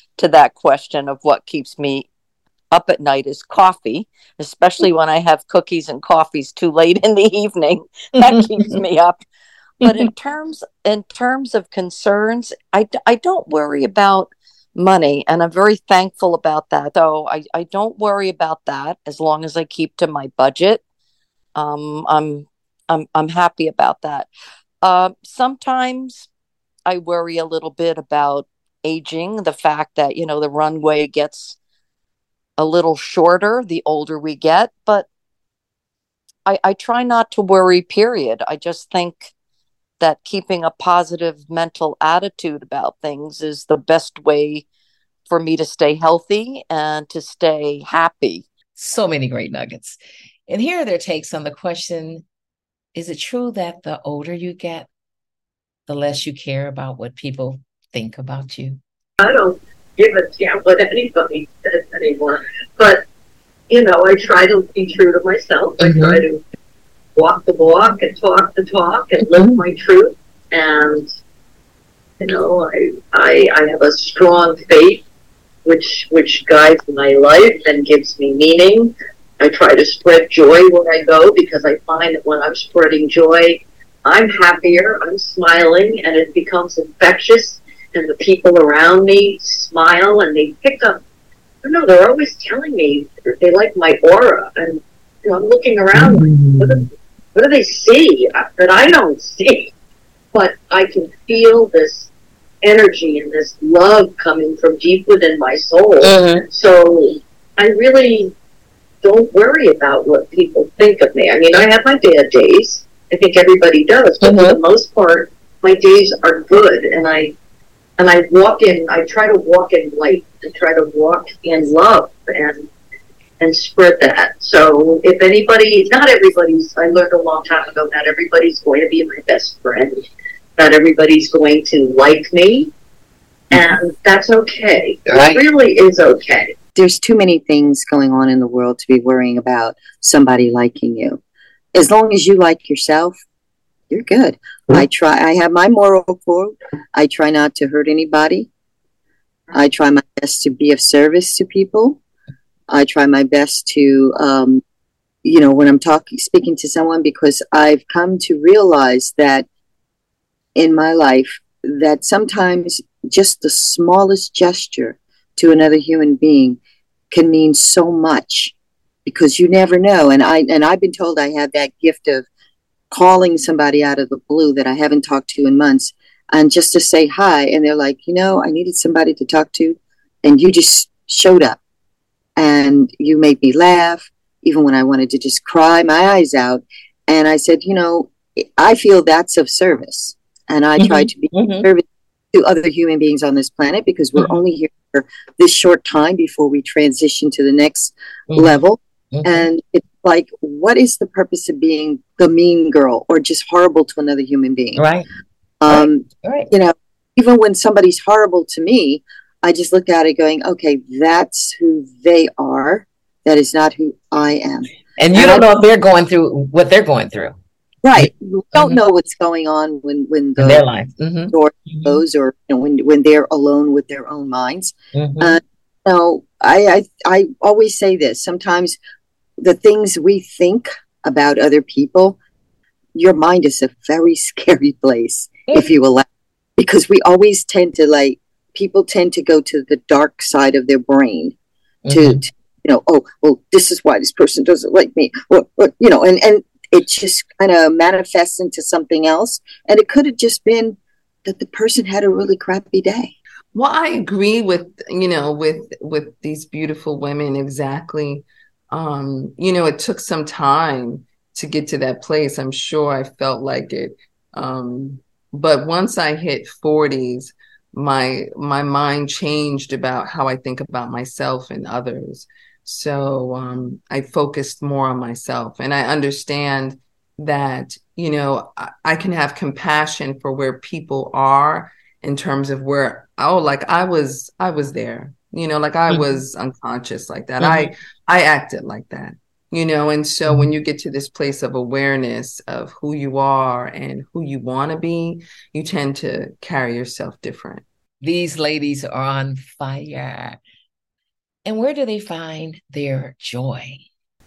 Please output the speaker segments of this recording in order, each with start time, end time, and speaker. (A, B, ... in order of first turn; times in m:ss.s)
0:00.2-0:01.9 A
0:02.7-0:07.8 A
0:08.4-0:08.8 B
0:08.9-0:09.2 A
0:10.2-0:13.9 A
0:13.1-0:14.3 B
0:14.7-0:20.8 A
0:15.3-0:15.7 B
0:16.9-0:17.4 B
0:18.1-0:20.1 B
0:21.5-0:24.2 A
0:24.8-0:26.3 A
0:26.9-0:31.5 A
0:32.6-0:35.0 A
0:33.2-0:35.0 B
0:36.5-0:39.2 A
0:37.3-0:37.7 B
0:38.5-0:39.1 B
0:40.0-0:44.6 A
0:43.3-0:43.6 B
0:45.3-0:47.6 A
0:45.5-0:45.9 B
0:46.7-0:48.4 B
0:48.8-0:52.2 C
0:52.9-0:54.9 C
0:55.9-0:58.8 C
0:59.2-1:03.0 B
1:03.7-1:06.4 B
1:05.8-1:06.2 C
1:07.1-1:11.1 B
1:09.3-1:09.6 C
1:12.2-1:15.0 B
1:15.6-1:31.0 B
1:31.6-1:39.7 B
1:36.0-1:36.6 D
1:40.3-1:42.1 B
1:42.6-1:48.3 B
1:46.0-1:46.4 C
1:49.0-1:57.3 B
1:54.2-1:54.6 C
1:58.0-2:02.7 B
2:03.4-2:10.0 B
2:10.6-2:12.7 B
2:13.5-2:16.5 B
2:15.1-2:15.4 C
2:16.8-2:21.2 E
2:21.7-2:23.1 E
2:23.9-2:28.5 E
2:29.5-2:32.0 E
2:32.7-2:34.6 E
2:35.2-2:39.4 E
2:40.5-2:46.6 E
2:47.1-2:48.5 E
2:49.0-2:52.3 E
2:52.9-3:01.6 E
3:02.4-3:24.8 E
3:10.8-3:11.7 C
3:18.3-3:18.6 C
3:19.1-3:19.4 C
3:24.7-3:25.1 C
3:25.6-3:35.4 E
3:25.7-3:26.5 C
3:35.0-3:37.4 C
3:37.8-3:40.6 E
3:38.0-3:38.8 C
3:40.4-3:42.0 C
3:41.3-3:48.8 E
3:44.9-3:45.4 C
3:49.4-3:52.2 E
3:52.9-3:56.0 E
3:56.6-4:01.3 E
4:01.8-4:02.2 C
4:01.9-4:13.1 E
4:13.5-4:57.6 D
4:45.9-4:46.2 C
4:47.4-4:47.7 C
4:50.2-4:50.5 C
4:58.0-5:00.4 C
5:01.4-5:03.8 C